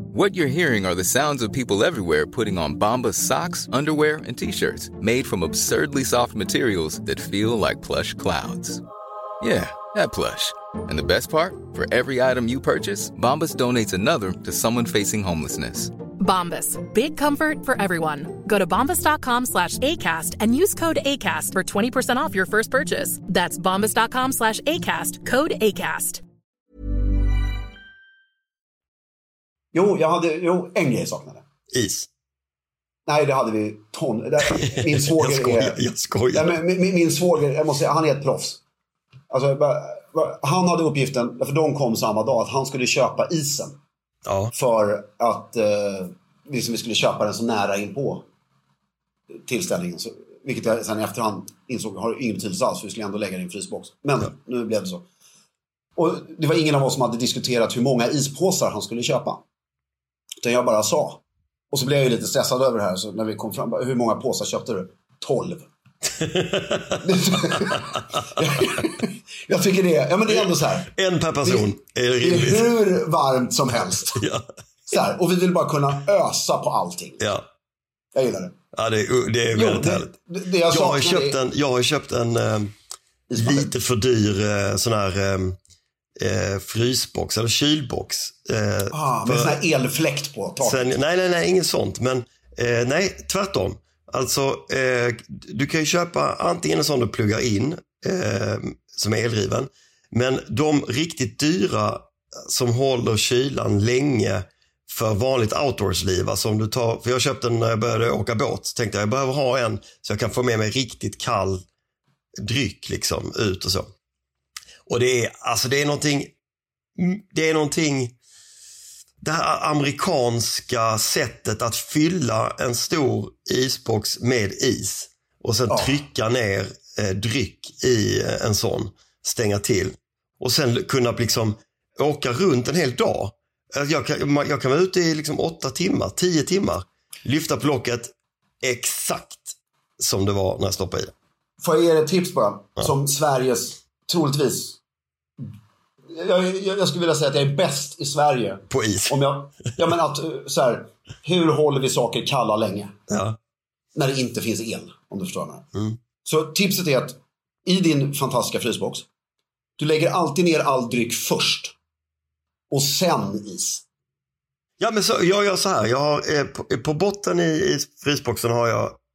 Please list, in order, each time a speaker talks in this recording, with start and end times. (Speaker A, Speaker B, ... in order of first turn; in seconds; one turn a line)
Speaker A: 0.1-8.8
Speaker A: 9.4-15.9
Speaker B: 16.2-26.2
Speaker C: 29.7-31.4
Speaker D: 31.7-32.1
Speaker C: 33.1-35.8
Speaker D: 34.5-36.6
Speaker C: 36.3-38.6
Speaker C: 39.3-43.8
Speaker D: 44.2-44.5
Speaker C: 44.5-48.2
Speaker C: 49.5-55.0
Speaker C: 56.0-59.4
Speaker C: 60.4-61.2
Speaker C: 61.7-65.7
Speaker D: 66.1-67.8
Speaker C: 67.0-70.9
Speaker D: 70.3-72.7
Speaker C: 71.4-74.2
Speaker D: 73.8-74.4
Speaker C: 74.9-77.3
Speaker C: 78.1-78.5
Speaker D: 78.7-80.1
Speaker C: 79.5-81.4
Speaker D: 80.7-82.7
Speaker C: 83.3-83.7
Speaker D: 83.4-85.6
Speaker D: 86.2-89.6
Speaker C: 88.9-90.9
Speaker D: 90.6-111.6
Speaker D: 112.4-113.9
Speaker D: 114.9-116.3
Speaker D: 117.0-118.1
Speaker D: 119.2-141.1
Speaker C: 125.7-126.0
Speaker C: 141.6-144.8
Speaker C: 146.1-152.9
Speaker D: 148.7-149.2
Speaker D: 153.1-153.4
Speaker C: 153.9-155.6
Speaker C: 156.2-159.1
Speaker C: 159.8-161.7
Speaker C: 162.7-163.8
Speaker D: 164.8-169.0